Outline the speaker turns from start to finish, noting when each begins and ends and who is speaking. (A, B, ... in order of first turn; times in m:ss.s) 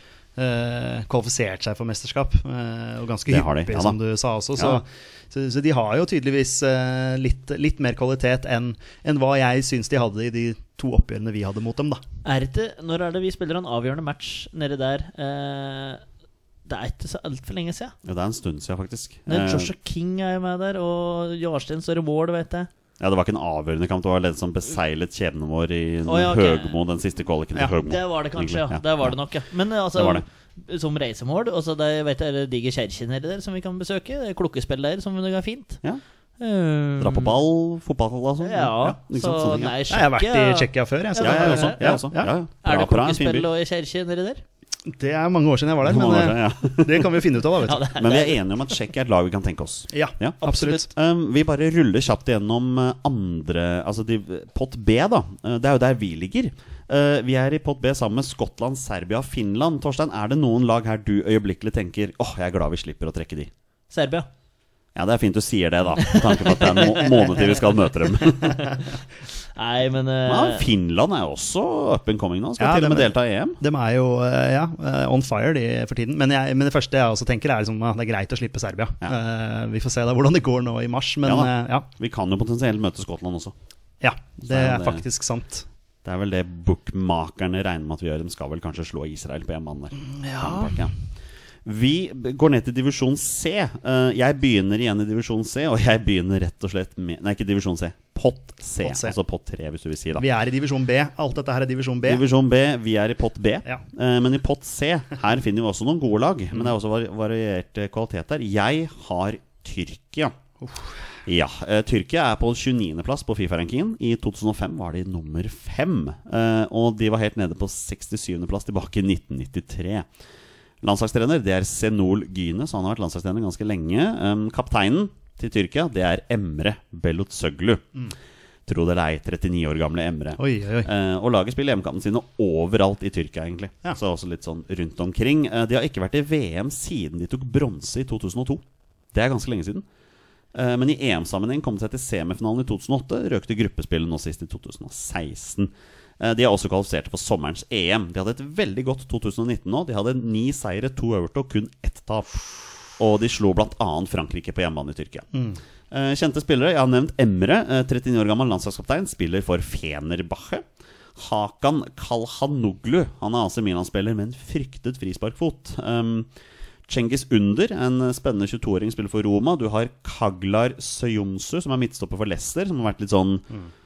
0:00.4-0:12.0 A
0:03.3-0:04.0 B
0:12.2-0:16.0 C
0:16.6-0:17.9 C
0:18.0-0:19.7 B
0:19.3-0:22.7 C
0:23.0-0:29.1 B
0:26.0-0:26.7 C
0:27.8-0:35.8 C
0:29.9-0:30.2 B
0:36.4-0:37.3 C
0:37.0-0:39.7 B
0:38.4-0:41.9 C
0:39.9-0:42.3 A
0:41.2-0:43.5 B
0:42.6-0:44.4 C
0:44.9-0:47.9 A
0:45.8-0:47.2 B
0:47.6-0:48.7 C
0:48.0-1:03.5 B
0:49.9-0:50.9 A
1:03.9-1:04.3 C
1:04.9-1:08.7 B
1:06.0-1:07.4 C
1:09.5-1:10.6 C
1:10.3-1:13.6 B
1:12.6-1:21.9 A
1:21.2-1:23.5 B
1:24.0-1:25.6 A
1:24.4-1:25.0 B
1:26.0-1:30.9 B
1:30.0-1:30.9 A
1:31.6-1:40.2 B
1:38.8-1:39.2 A
1:40.2-1:42.2 A
1:42.0-1:50.4 B
1:50.6-1:51.0 A
1:51.2-2:00.1 B
2:00.8-2:07.8 B
2:08.7-2:19.8 B
2:10.4-2:10.9 A
2:20.5-2:32.4 B
2:33.0-2:35.2 B
2:35.3-2:35.6 A
2:35.9-2:40.6 B
2:41.2-2:46.3 B
2:46.9-2:53.5 B